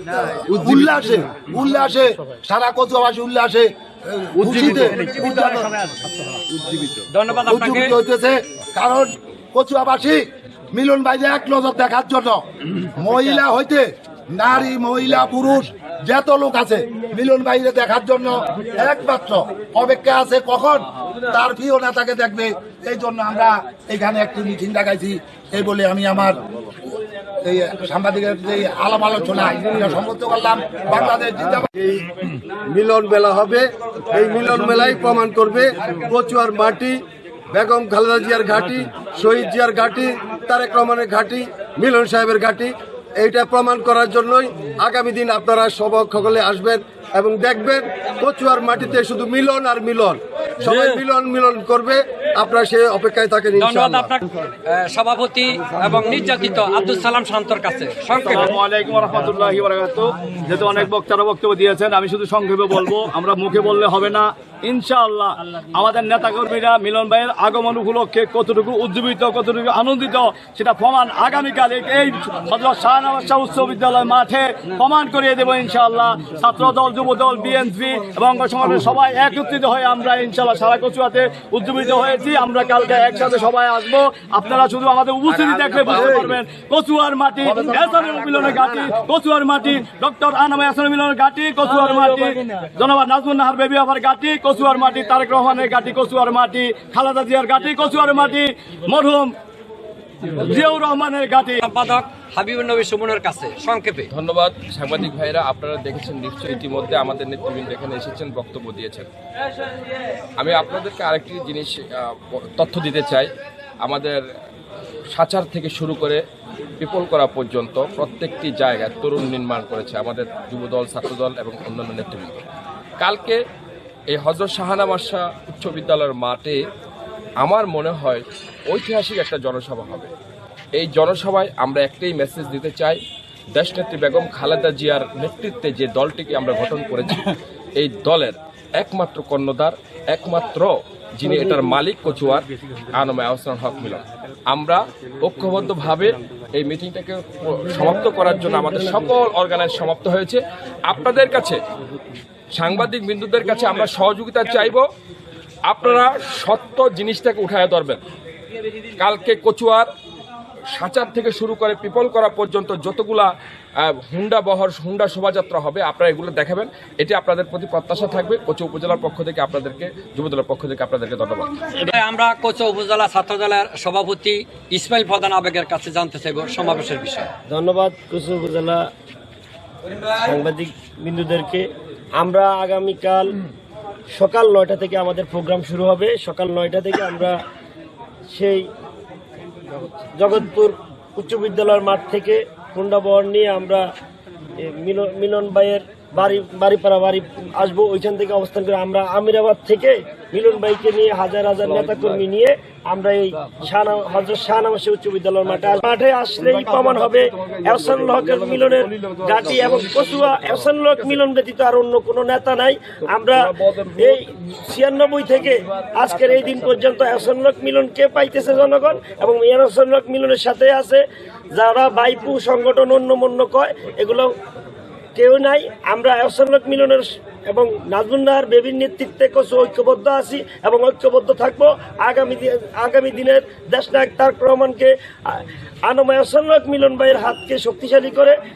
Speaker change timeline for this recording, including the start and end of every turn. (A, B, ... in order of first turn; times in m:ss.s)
0:00.5-0:01.3 A
0:00.5-0:05.6 B
0:04.4-0:05.7 A
0:05.0-0:06.0 C
0:06.5-0:07.0 A
0:07.1-0:07.9 C
0:07.5-0:26.4 B
0:27.4-0:31.7 B
0:32.7-0:54.1 A
0:53.6-0:58.6 C
0:58.2-1:39.3 D
1:25.4-1:26.4 A
1:27.4-1:28.1 B
1:40.3-1:41.6 D
1:41.6-1:44.0 C
1:44.1-1:49.1 E
1:50.4-1:53.3 E
1:53.8-1:54.2 E
1:55.1-1:56.2 E
1:56.8-2:02.4 E
2:03.0-2:03.4 E
2:04.1-2:06.6 E
2:07.4-2:10.1 E
2:10.8-2:13.0 E
2:13.5-2:31.6 E
2:32.5-2:34.8 E
2:35.7-2:38.0 E
2:39.0-2:39.9 E
2:40.7-2:43.3 E
2:43.8-2:51.5 E
2:51.7-2:57.3 C
2:57.5-2:58.8 F
3:00.2-3:01.6 F
3:02.2-3:03.3 F
3:04.1-3:07.4 F
3:08.3-3:08.6 F
3:10.2-3:13.8 F
3:14.6-3:41.0 F
3:41.5-3:44.3 F
3:45.2-3:58.4 F